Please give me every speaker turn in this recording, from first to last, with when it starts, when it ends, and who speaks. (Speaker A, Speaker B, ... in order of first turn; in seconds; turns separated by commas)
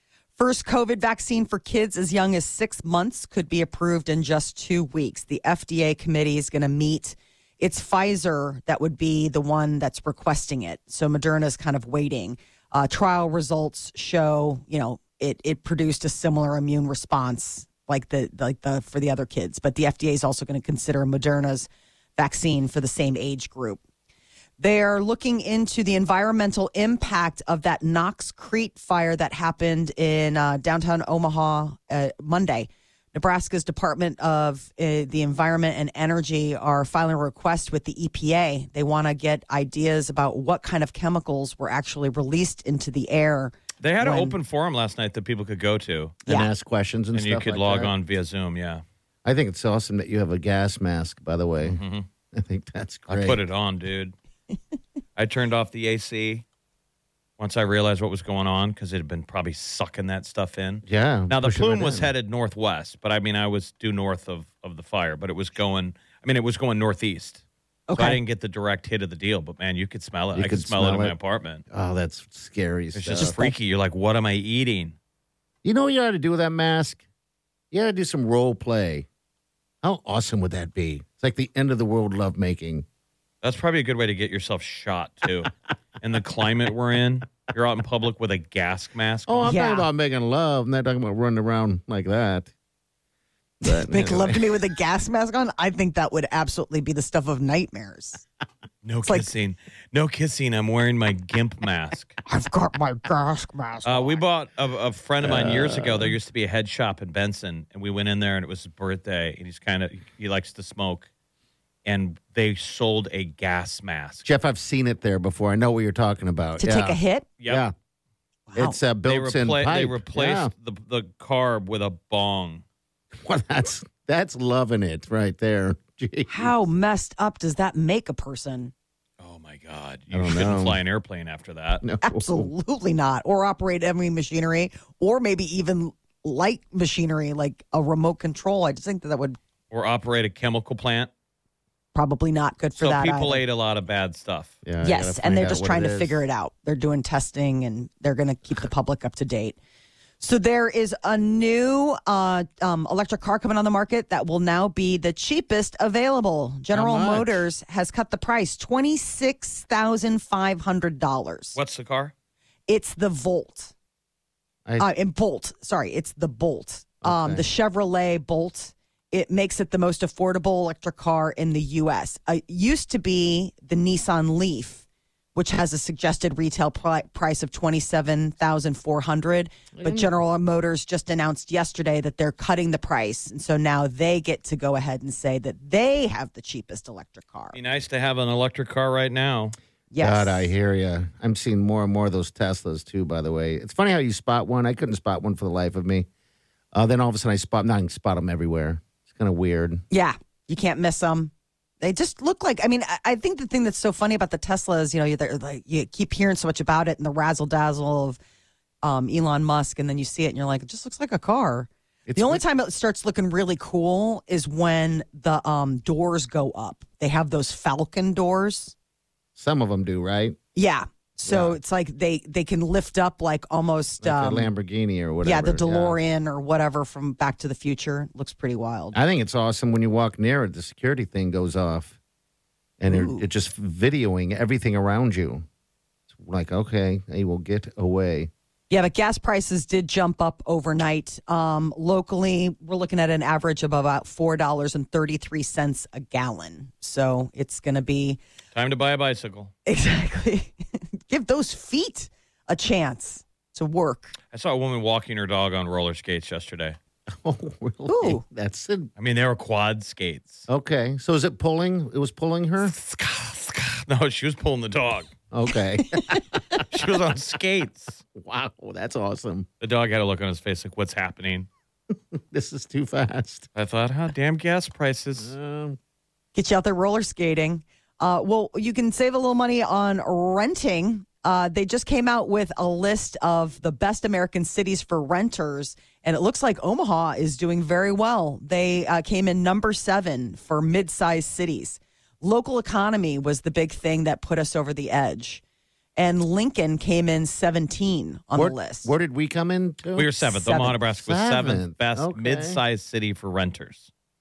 Speaker A: 0.4-23.8, Speaker A: 24.6-44.3, Speaker B: 43.8-46.2, Speaker C: 46.2-47.9, Speaker B: 47.1-48.8, Speaker C: 49.2-51.8, Speaker B: 51.6-52.0, Speaker C: 52.3-53.4, Speaker B: 53.1-54.1, Speaker B: 55.1-56.4, Speaker B: 57.4-67.4, Speaker C: 60.9-62.1, Speaker A: 67.9-68.2, Speaker B: 67.9-71.6, Speaker C: 70.3-71.1, Speaker C: 71.7-73.5, Speaker B: 72.9-75.0, Speaker C: 75.6-77.0, Speaker C: 77.7-79.1, Speaker C: 79.8-82.8, Speaker B: 83.4-89.5, Speaker C: 89.3-92.5, Speaker A: 89.4-89.9, Speaker C: 93.6-94.6, Speaker A: 93.6-98.2, Speaker B: 98.8-102.2, Speaker A: 102.2-104.2, Speaker B: 103.8-111.1, Speaker C: 105.2-106.1, Speaker B: 111.8-114.2, Speaker C: 114.2-117.7, Speaker A: 116.6-117.3, Speaker A: 118.5-118.8, Speaker C: 118.5-120.5, Speaker B: 119.0-122.6, Speaker C: 123.1-126.5, Speaker A: 126.3-128.7, Speaker B: 129.2-131.8, Speaker C: 130.1-130.8, Speaker C: 131.8-132.5, Speaker A: 132.0-139.4, Speaker B: 139.7-141.1, Speaker A: 141.9-143.4, Speaker B: 142.8-144.5, Speaker C: 144.6-146.2, Speaker A: 144.8-149.6, Speaker A: 150.2-161.6, Speaker C: 156.7-157.5, Speaker B: 161.6-162.1, Speaker A: 162.7-163.7, Speaker A: 164.8-174.8, Speaker C: 167.0-167.4, Speaker A: 175.3-187.5, Speaker C: 179.7-180.1, Speaker B: 187.5-189.6, Speaker A: 189.9-190.5, Speaker C: 190.0-196.1, Speaker C: 196.7-199.8, Speaker A: 199.9-208.2, Speaker A: 208.8-218.7, Speaker C: 212.1-212.4, Speaker C: 219.3-220.4, Speaker A: 220.5-224.5, Speaker C: 221.2-221.6, Speaker C: 224.0-226.0, Speaker A: 225.2-229.0, Speaker C: 228.9-232.0, Speaker C: 232.8-235.4, Speaker A: 232.9-233.2, Speaker C: 236.1-238.3, Speaker A: 238.7-248.2, Speaker B: 248.5-249.5, Speaker A: 249.7-250.5, Speaker A: 251.1-254.1, Speaker B: 254.3-256.8, Speaker C: 257.1-258.9, Speaker A: 257.9-258.2, Speaker B: 259.0-260.5, Speaker C: 260.5-262.7, Speaker B: 262.6-265.1, Speaker C: 265.3-266.6, Speaker B: 266.7-268.0, Speaker C: 268.1-269.5, Speaker B: 269.6-271.5, Speaker C: 272.1-273.5, Speaker B: 273.5-275.3, Speaker C: 275.2-275.8, Speaker A: 276.3-295.4, Speaker A: 296.0-298.9, Speaker C: 298.3-302.6, Speaker B: 299.9-303.9, Speaker A: 300.4-300.7